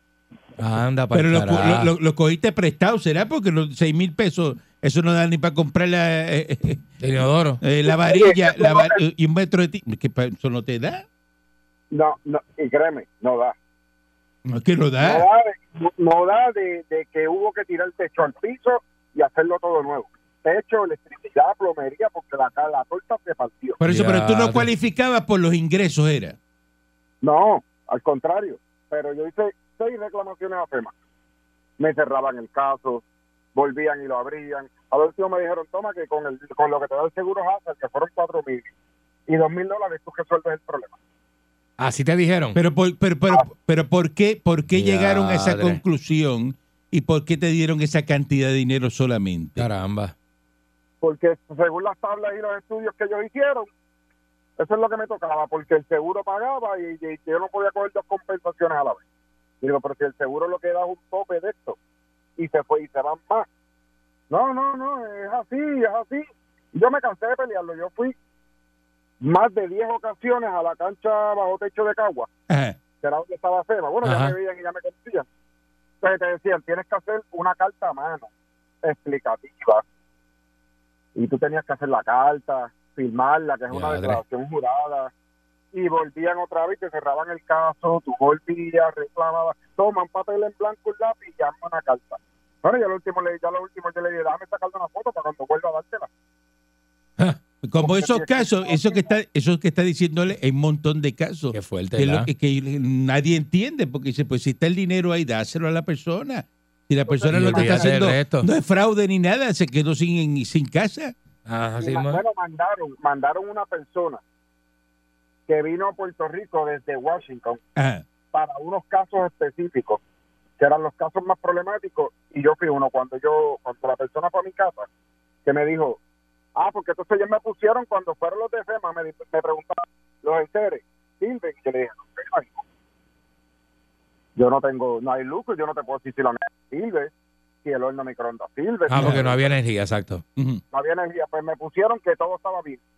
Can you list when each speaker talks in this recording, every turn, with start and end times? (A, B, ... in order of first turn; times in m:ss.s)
0:00.6-0:01.9 A
0:01.1-0:06.9 B
0:07.0-0:07.6 A
0:07.6-0:11.0 B
0:07.9-0:09.0 C
0:11.9-0:13.5 C
0:14.4-0:15.3 B
0:15.0-0:23.8 C
0:23.8-0:26.4 B
0:23.8-0:24.7 A
0:27.2-0:30.9 C
0:31.8-0:33.0 C
0:33.6-0:38.7 C
0:39.3-0:41.0 C
0:41.8-0:42.6 A
0:42.5-0:49.7 B
0:44.7-0:45.8 A
0:49.6-0:50.1 A
0:51.0-0:53.7 C
0:54.6-0:59.0 C
0:59.6-1:01.8 C
1:02.4-1:03.4 C
1:04.3-1:08.1 C
1:09.2-1:12.3 C
1:12.5-1:12.8 B
1:13.0-1:15.2 C
1:14.0-1:14.3 A
1:16.0-1:18.3 C
1:18.8-1:19.8 C
1:21.2-1:25.1 C
1:23.7-1:24.2 A
1:25.7-1:36.1 C
1:37.6-1:51.1 B
1:37.8-1:39.1 C
1:41.5-1:42.3 A
1:47.1-1:48.0 C
1:47.3-1:48.5 A
1:51.5-1:52.2 A
1:51.8-1:54.2 C
1:55.5-1:57.6 C
1:57.8-1:58.0 B
1:58.3-2:00.0 C
2:00.6-2:04.9 C
2:05.4-2:06.0 C
2:06.6-2:12.6 C
2:14.4-2:17.1 C
2:17.6-2:19.5 C
2:18.9-2:19.2 B
2:18.9-2:20.2 A
2:20.4-2:20.6 B
2:20.7-2:22.8 C